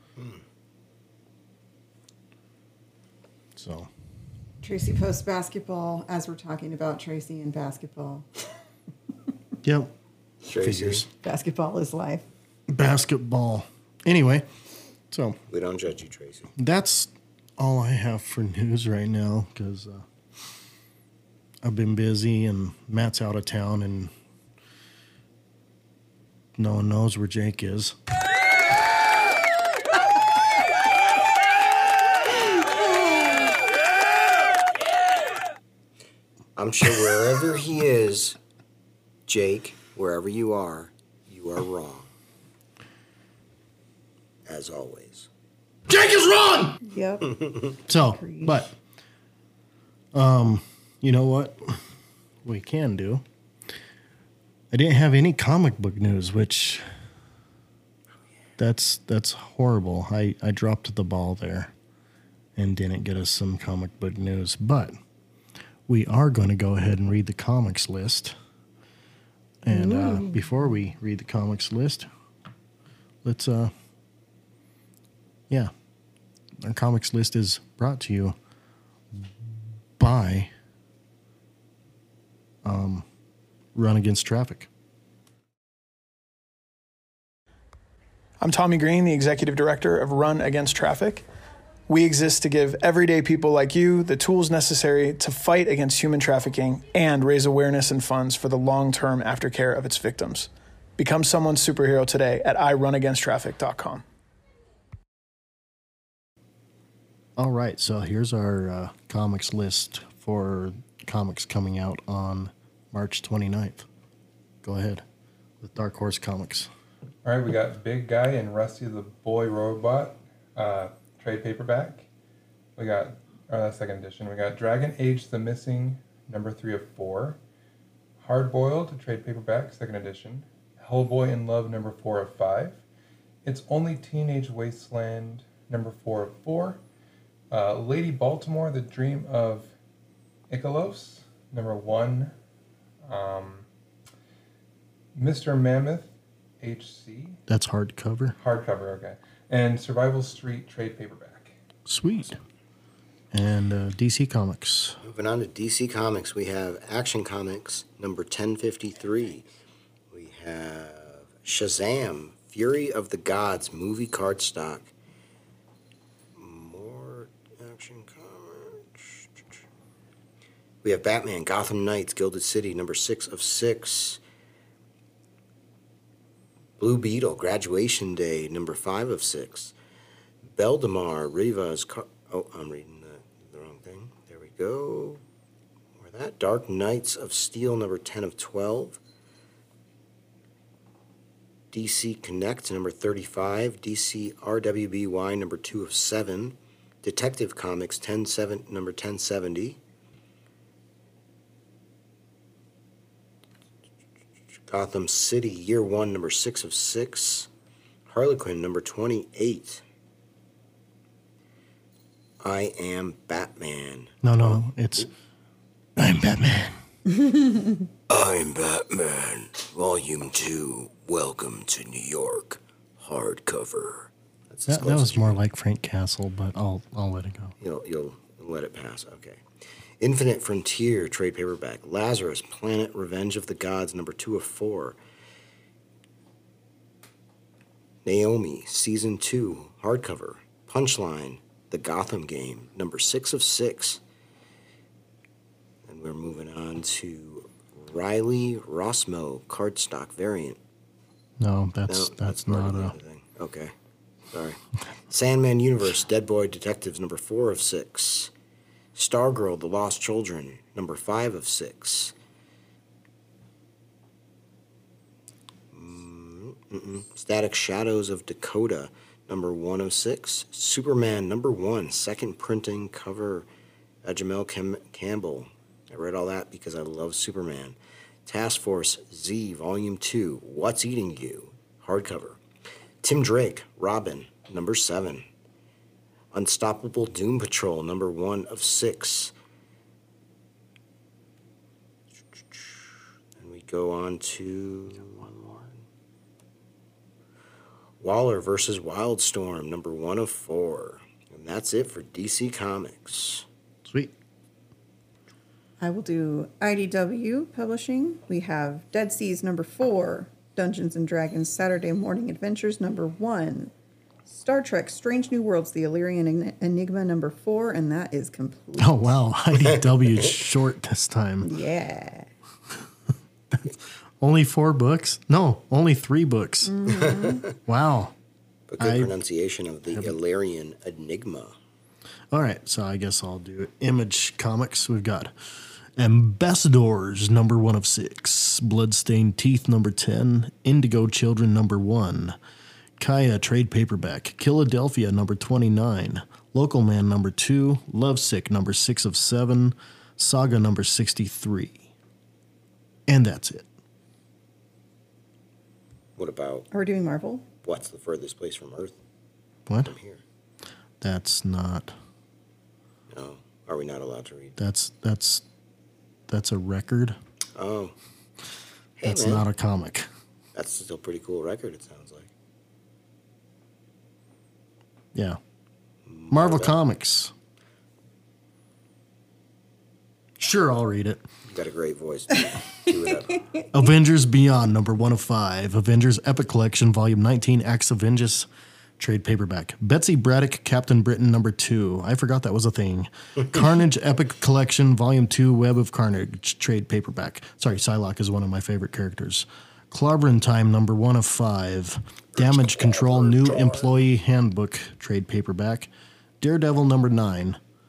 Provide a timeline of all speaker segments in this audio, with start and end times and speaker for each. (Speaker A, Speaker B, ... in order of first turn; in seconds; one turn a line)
Speaker A: 3.6-3.9
Speaker B: 4.6-8.3
Speaker A: 9.6-9.9
Speaker C: 10.4-11.1
Speaker A: 10.6-11.1
Speaker B: 11.2-12.2
Speaker A: 12.7-14.5
Speaker A: 15.1-15.4
Speaker C: 15.5-16.5
Speaker A: 16.6-20.1
Speaker A: 21.6-24.1
Speaker A: 26.6-28.0
Speaker C: 36.6-38.4
Speaker C: 39.3-42.1
Speaker C: 44.5-45.3
Speaker A: 45.9-46.8
Speaker B: 46.9-48.6
Speaker A: 47.9-48.8
Speaker A: 50.1-51.8
Speaker A: 52.4-53.2
Speaker A: 54.7-56.9
Speaker A: 58.6-61.7
Speaker A: 62.6-65.0
Speaker A: 65.9-68.4
Speaker A: 69.7-72.1
Speaker B: 69.7-70.4
Speaker A: 73.2-73.7
Speaker A: 76.6-78.4
Speaker A: 80.0-80.5
Speaker A: 82.6-83.0
Speaker A: 83.8-84.7
Speaker D: 88.4-91.3
Speaker D: 91.9-104.0
Speaker A: 107.4-113.9
Speaker A: 114.6-115.0
Speaker A: 115.6-116.7
Speaker E: 117.2-122.1
Speaker E: 122.8-127.4
Speaker E: 128.2-132.8
Speaker E: 133.4-136.8
Speaker E: 137.5-139.7
Speaker E: 140.5-142.3
Speaker E: 143.0-143.7
Speaker E: 145.2-147.4
Speaker A: 147.5-148.3
Speaker E: 148.4-151.5
Speaker A: 151.9-152.4
Speaker A: 153.3-155.0
Speaker C: 155.0-159.5
Speaker C: 160.1-164.9
Speaker C: 166.4-169.6
Speaker C: 170.8-174.2
Speaker C: 176.8-179.7
Speaker C: 180.5-185.2
Speaker C: 186.0-189.0
Speaker C: 191.7-199.8
Speaker C: 204.7-207.5
Speaker C: 208.1-209.8
Speaker C: 212.4-215.1
Speaker A: 214.2-215.1
Speaker A: 216.0-216.8
Speaker C: 218.1-225.4
Speaker A: 224.7-227.6
Speaker C: 227.6-229.4
Speaker C: 230.0-235.0
Speaker C: 238.1-244.0
Speaker C: 245.9-250.6
Speaker A: 251.4-253.0
Speaker C: 251.9-253.7
Speaker C: 254.3-258.3
Speaker C: 258.9-262.1
Speaker C: 265.7-273.5
Speaker C: 274.0-282.4
Speaker C: 283.0-285.2
Speaker C: 286.3-289.3
Speaker C: 292.4-292.9
Speaker C: 293.4-295.8
Speaker C: 298.0-303.5
Speaker A: 303.9-304.1
Speaker B: 305.8-313.7
Speaker B: 314.3-319.1
Speaker A: 318.8-321.5
Speaker B: 321.4-322.3
Speaker A: 323.5-328.1
Speaker B: 326.6-327.5
Speaker C: 328.7-331.6
Speaker A: 328.8-329.1
Speaker A: 332.3-335.3
Speaker A: 336.0-342.4
Speaker A: 343.0-351.9
Speaker A: 353.1-353.7
Speaker C: 356.2-356.7
Speaker B: 356.7-357.5
Speaker C: 357.6-359.0
Speaker A: 359.7-359.9
Speaker C: 359.8-360.2
Speaker A: 361.0-361.9
Speaker C: 363.1-364.6
Speaker A: 364.6-365.4
Speaker A: 366.3-367.2
Speaker C: 367.6-367.9
Speaker C: 369.0-369.4
Speaker A: 369.0-370.1
Speaker C: 370.6-372.3
Speaker A: 375.1-375.4
Speaker C: 376.1-376.8
Speaker A: 376.3-377.3
Speaker A: 380.4-381.2
Speaker C: 381.5-383.5
Speaker A: 383.7-388.5
Speaker A: 389.0-405.9
Speaker C: 402.4-403.9
Speaker A: 406.4-407.6